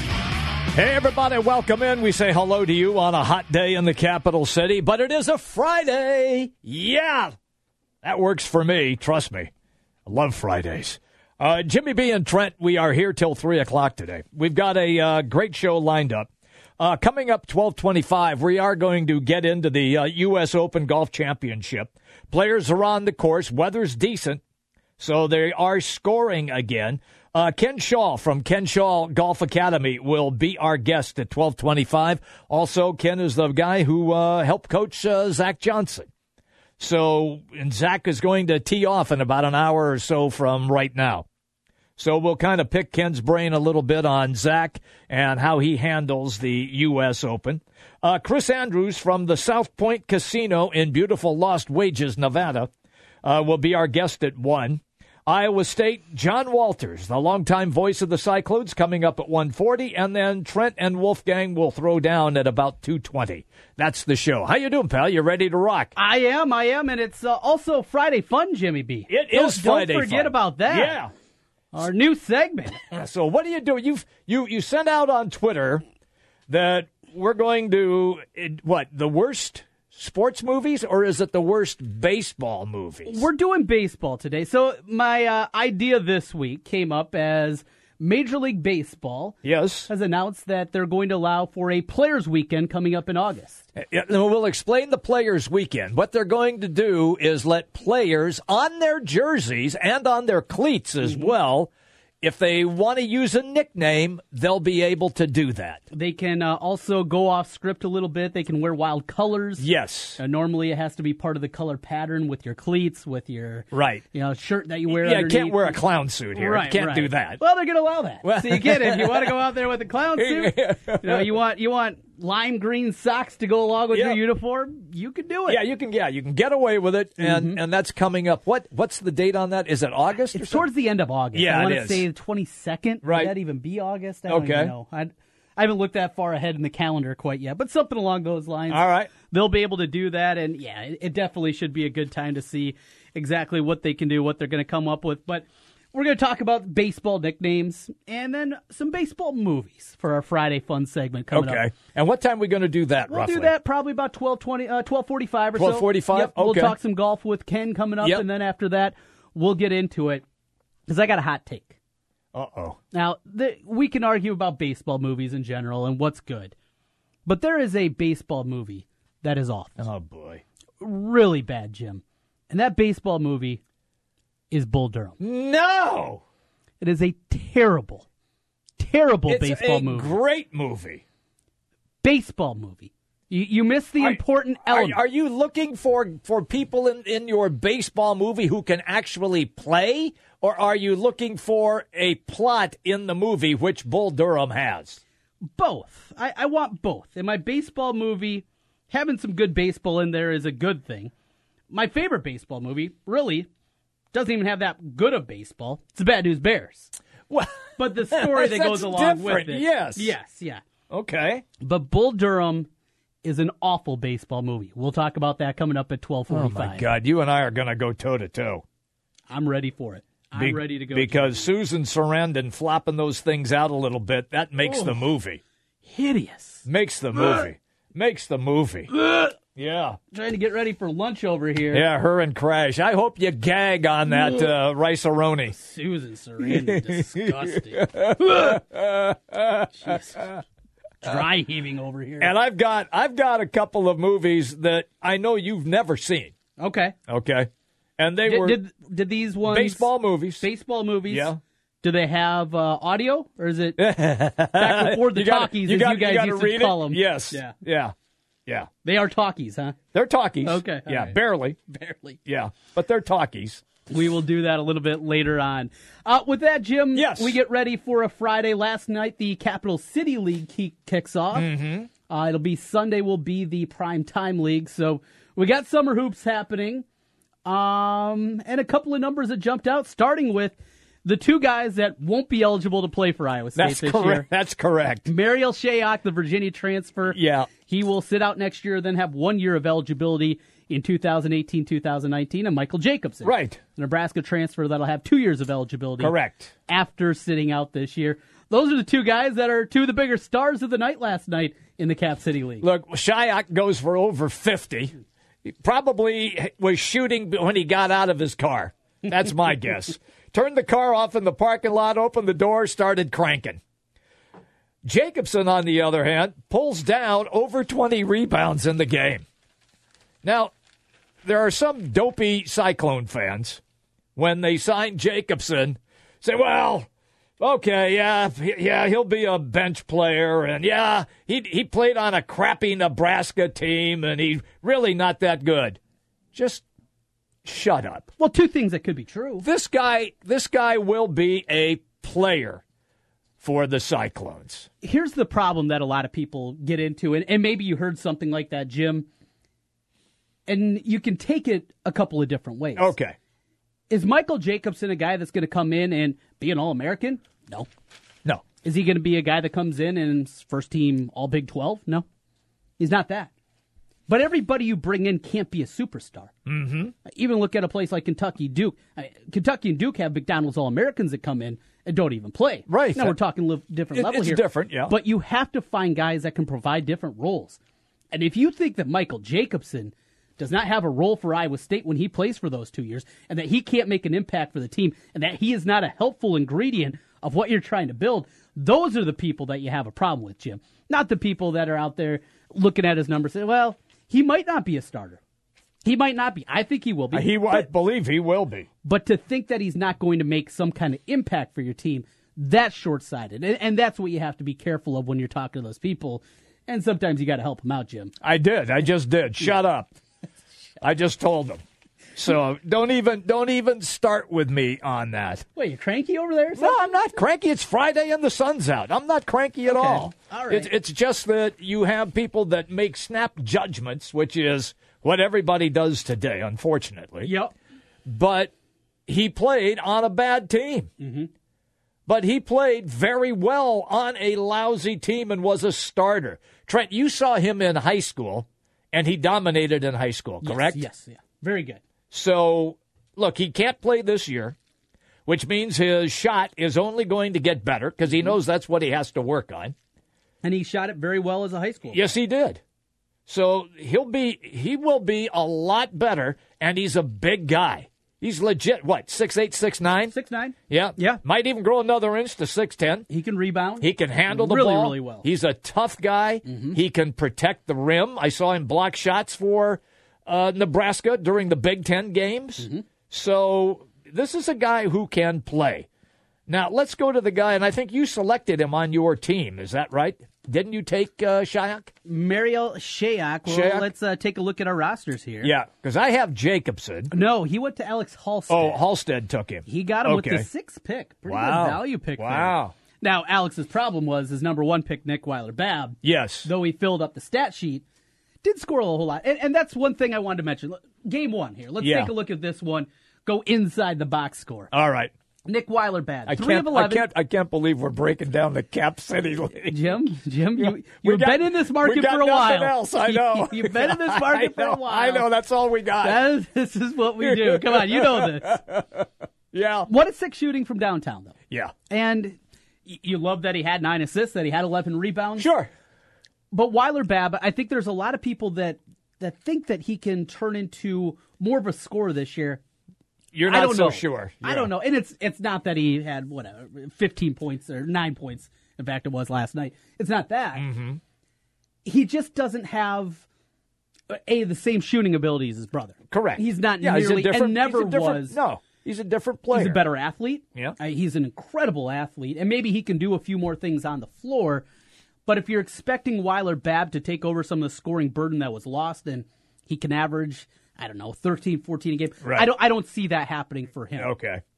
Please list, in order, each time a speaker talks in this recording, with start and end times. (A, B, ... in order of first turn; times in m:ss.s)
0:00.7-0:07.3 A
0:08.0-0:09.5 A
0:10.0-0:24.4 A
0:25.0-0:36.1 A
0:36.8-0:41.2 A
0:42.0-0:52.7 A
0:53.2-1:05.9 A
1:06.0-1:11.0 B
1:09.1-1:11.1 A
1:11.7-1:12.8 B
1:12.9-1:15.8 A
1:16.5-1:23.2 A
1:23.0-1:33.6 B
1:29.4-1:29.9 A
1:33.7-1:41.7 A
1:41.0-1:41.3 B
1:42.2-1:45.8 A
1:45.9-1:49.6 B
1:49.6-1:50.2 A
1:50.2-1:55.8 B
1:53.7-1:54.0 A
1:54.9-1:57.4 A
1:56.3-2:05.6 B
1:58.2-1:59.4 A
2:00.2-2:01.3 A
2:03.9-2:04.2 A
2:05.5-2:10.6 A
2:07.2-2:07.6 B
2:10.3-2:31.6 B
2:11.3-2:12.0 A
2:13.0-2:13.3 A
2:14.3-2:14.7 A
2:18.7-2:19.1 A
2:31.3-2:33.5 A
2:33.1-2:40.2 B
2:35.6-2:36.7 A
2:40.9-2:41.8 B
2:42.3-2:42.8 A
2:42.9-2:46.5 B
2:47.2-2:49.8 B
2:49.8-2:50.4 A
2:50.8-2:53.6 B
2:54.5-2:55.2 B
2:55.2-2:56.2 A
2:56.8-2:58.0 B
2:58.8-3:00.2 B
2:59.3-3:01.0 A
3:02.0-3:05.0 B
3:04.0-3:15.0 A
3:15.6-3:21.1 B
3:21.7-3:23.5 B
3:24.1-3:26.9 B
3:27.3-3:30.1 A
3:27.8-3:30.6 B
3:30.9-3:31.4 A
3:31.6-3:32.7 B
3:33.2-3:36.9 B
3:36.3-3:38.6 A
3:39.3-3:41.5 B
3:40.3-3:45.4 A
3:44.6-3:45.0 B
3:45.8-3:46.6 B
3:46.6-3:48.9 A
3:48.9-3:49.3 B
3:49.5-3:50.0 A
3:50.1-3:51.8 B
3:51.7-3:55.5 A
3:55.5-3:58.6 B
3:56.4-4:00.3 A
3:59.7-4:00.4 B
4:01.0-4:02.3 B
4:02.2-4:06.3 A
4:06.6-4:06.9 B
4:07.1-4:08.6 A
4:08.2-4:13.8 B
4:09.5-4:10.4 A
4:11.1-4:11.4 A
4:13.8-4:17.9 A
4:14.6-4:17.5 B
4:18.8-4:19.8 B
4:19.9-4:21.6 A
4:20.4-4:22.2 B
4:22.2-4:23.6 A
4:23.9-4:31.5 B
4:26.9-4:27.4 A
4:31.3-4:31.9 A
4:32.1-4:36.8 B
4:37.4-4:44.3 B
4:43.6-4:45.1 A
4:45.1-4:56.1 B
4:47.1-4:47.5 A
4:53.2-4:53.6 A
4:56.0-4:56.5 A
4:56.7-5:02.6 B
5:02.6-5:13.6 A
5:14.8-5:19.2 A
5:20.2-5:20.5 A
5:21.2-5:23.6 A
5:24.2-5:26.9 A
5:27.4-5:35.8 A
5:36.3-5:36.6 A
5:37.4-5:38.1 A
5:38.2-5:39.4 B
5:39.4-5:42.6 A
5:43.4-5:44.7 A
5:44.8-5:49.1 B
5:50.5-5:52.9 B
5:52.8-5:53.2 A
5:53.9-5:57.7 B
5:58.6-6:02.0 B
6:02.8-6:03.3 B
6:04.1-6:06.3 B
6:06.4-6:06.9 A
6:07.0-6:17.6 B
6:12.7-6:13.1 A
6:13.9-6:14.9 A
6:18.1-6:35.2 B
6:35.8-6:37.7 B
6:37.1-6:38.7 A
6:38.8-6:48.1 B
6:48.2-6:49.9 A
6:50.8-6:51.6 A
6:52.1-6:55.4 A
6:55.5-6:57.2 B
6:56.6-7:07.3 A
6:59.6-7:00.7 B
7:07.2-7:07.5 B
7:08.0-7:08.5 A
7:09.1-7:10.9 A
7:11.0-7:11.3 B
7:12.1-7:20.8 A
7:20.4-7:21.8 B
7:22.1-7:24.6 A
7:25.2-7:29.7 A
7:30.4-7:32.0 B
7:31.9-7:32.6 A
7:33.3-7:40.1 A
7:40.1-7:41.2 B
7:40.7-7:43.0 A
7:43.1-7:45.2 B
7:43.8-7:55.9 A
7:46.4-7:46.8 B
7:52.6-7:52.8 B
7:56.5-8:01.9 A
8:02.0-8:05.5 B
8:03.5-8:03.9 A
8:05.4-8:07.1 A
8:07.1-8:08.8 B
8:08.5-8:10.5 A
8:09.7-8:17.8 B
8:11.2-8:12.7 A
8:16.0-8:16.5 A
8:18.4-8:24.7 B
8:21.8-8:22.1 A
8:24.7-8:25.1 A
8:25.4-8:27.1 B
8:26.3-8:30.0 A
8:29.7-8:35.3 B
8:30.6-8:36.2 A
8:36.0-8:38.6 B
8:37.2-8:39.9 A
8:39.9-8:41.3 B
8:41.9-8:45.5 B
8:45.4-8:45.7 A
8:46.5-8:52.6 B
8:53.3-8:54.7 A
8:53.5-9:00.6 B
9:00.6-9:01.0 A
9:01.8-9:03.2 B
9:04.1-9:08.4 B
9:06.1-9:09.8 A
9:09.5-9:14.6 B
9:15.2-9:24.1 B
9:22.2-9:22.5 A
9:24.0-9:24.4 A